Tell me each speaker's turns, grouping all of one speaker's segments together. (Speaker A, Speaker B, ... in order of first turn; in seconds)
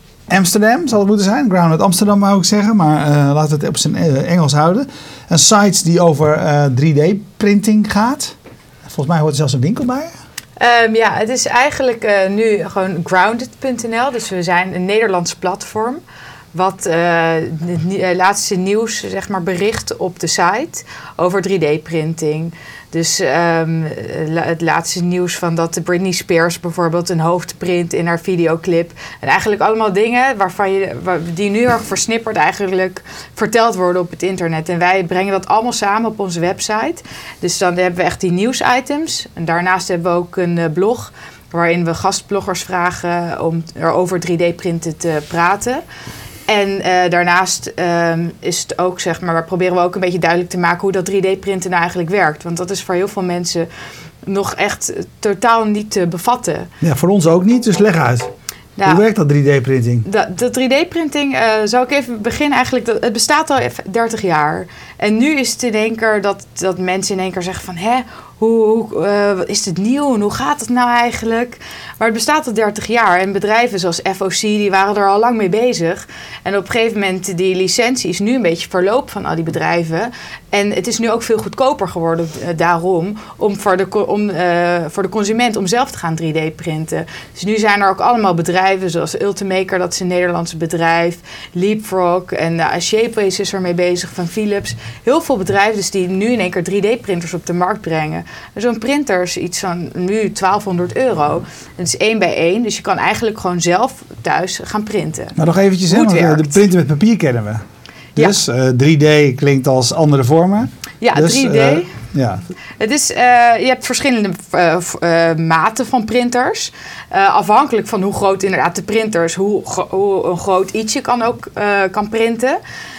Speaker A: 0.3-10.1, 56.8-58.3, 58.8-60.0, 105.3-107.6, 108.2-112.4
Speaker B: 10.6-16.0, 16.5-45.8, 46.5-53.7, 54.2-56.7, 58.8-59.0, 60.0-105.4, 105.9-106.6, 111.0-111.9, 112.8-122.6